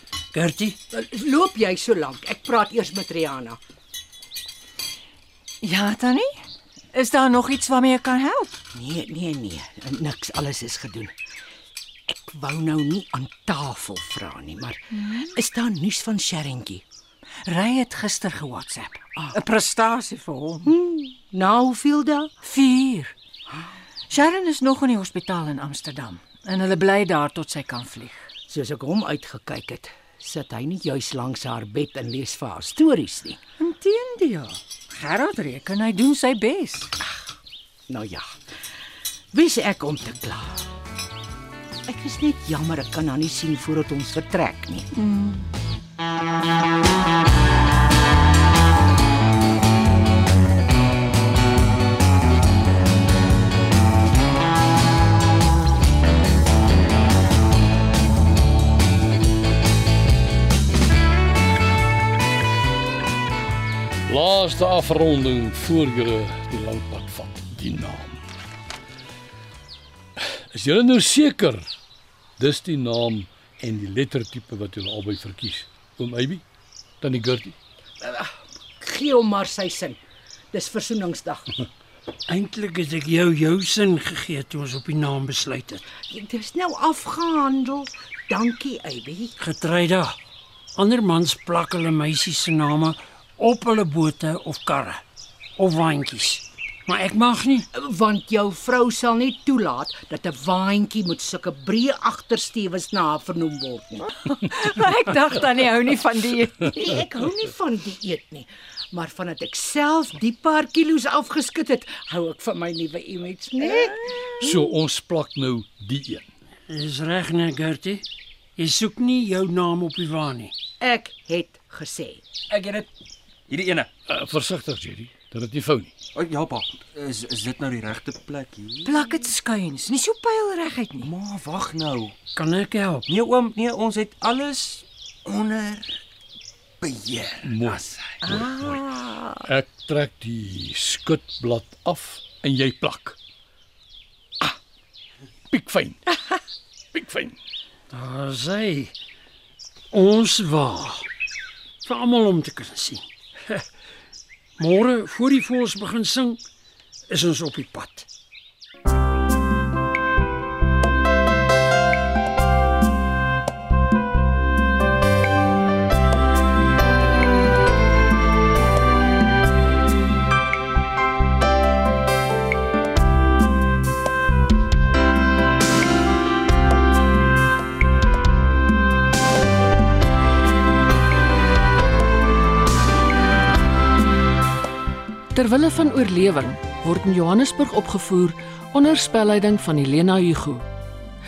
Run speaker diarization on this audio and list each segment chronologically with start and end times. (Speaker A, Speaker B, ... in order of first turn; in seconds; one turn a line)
Speaker A: 0.3-0.8
Speaker B: 0.9-3.6
Speaker C: 5.6-8.6
Speaker B: 8.7-11.1
Speaker B: 12.1-16.8
Speaker C: 17.5-20.7
Speaker B: 20.7-22.3
Speaker C: 22.4-23.1
Speaker C: 24.1-28.3
Speaker B: 28.5-33.4
Speaker C: 33.6-36.9
Speaker B: 37.9-38.3
Speaker B: 39.3-40.6
Speaker B: 41.9-44.9
Speaker C: 45.0-45.5
Speaker D: 64.1-68.2
Speaker D: 70.2-71.7
Speaker D: 72.4-76.4
Speaker D: 77.0-77.5
Speaker B: 78.0-80.0
Speaker B: 80.5-81.5
Speaker A: 82.3-85.8
Speaker B: 86.0-89.3
Speaker A: 89.4-90.2
Speaker A: 90.8-95.0
Speaker A: 95.6-97.7
Speaker B: 97.7-104.1
Speaker C: 104.2-106.8
Speaker B: 106.7-114.0
Speaker D: 114.4-116.3
Speaker A: 116.7-118.0
Speaker A: 118.6-120.5
Speaker B: 120.8-122.2
Speaker E: 122.5-122.9
Speaker E: 123.5-123.9
Speaker D: 124.1-125.9
Speaker E: 126.2-128.9
Speaker C: 128.8-131.1
Speaker E: 131.0-132.1
Speaker A: 132.4-133.1
Speaker E: 133.1-136.0
Speaker E: 136.8-138.2
Speaker D: 137.4-138.8
Speaker C: 138.2-139.2
Speaker D: 139.4-143.2
Speaker D: 145.5-146.0
Speaker D: 146.9-147.4
Speaker A: 147.9-148.9
Speaker A: 149.9-151.1
Speaker A: 151.8-153.6
Speaker A: 154.6-156.4
Speaker A: 157.1-158.1
Speaker F: 185.3-190.6